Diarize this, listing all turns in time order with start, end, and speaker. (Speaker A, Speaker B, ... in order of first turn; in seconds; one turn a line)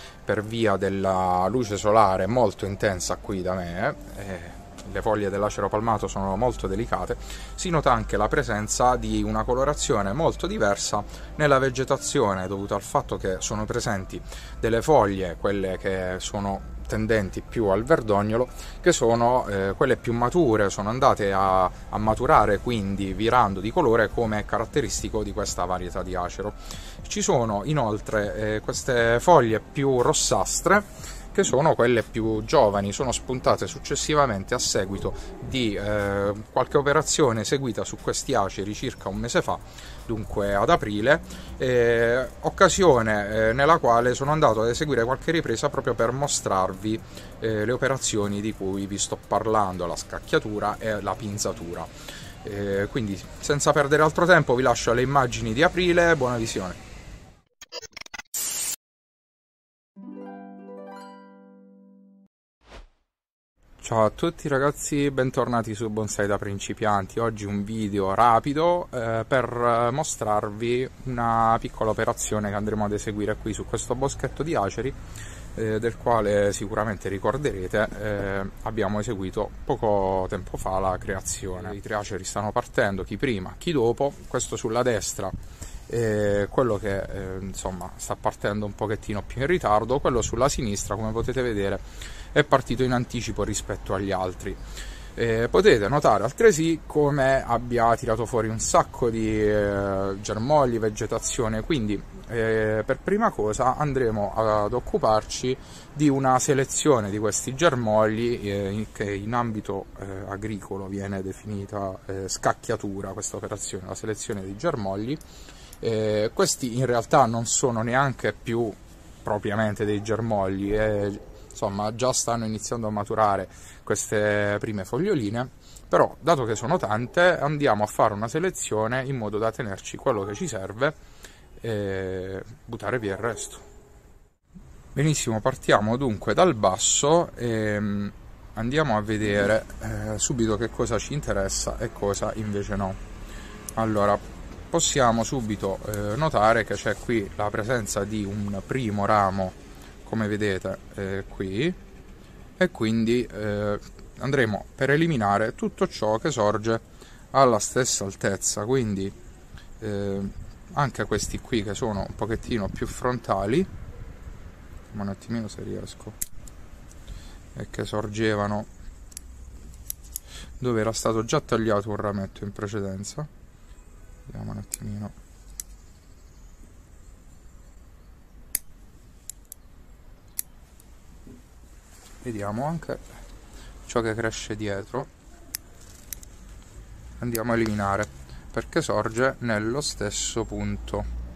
Speaker A: 0.2-51.9
Speaker A: 52.4-56.8
Speaker A: 63.8-75.0
Speaker A: 75.5-85.3
Speaker A: 85.9-94.6
Speaker A: 95.2-115.2
Speaker A: 115.8-131.0
Speaker A: 131.6-133.7
Speaker A: 134.9-143.0
Speaker A: 143.8-151.8
Speaker A: 152.6-159.2
Speaker A: 159.8-163.7
Speaker A: 164.9-166.2
Speaker A: 167.6-168.7
Speaker A: 170.6-173.3
Speaker A: 174.3-175.1
Speaker A: 182.2-183.0
Speaker A: 183.9-185.1
Speaker A: 187.2-191.1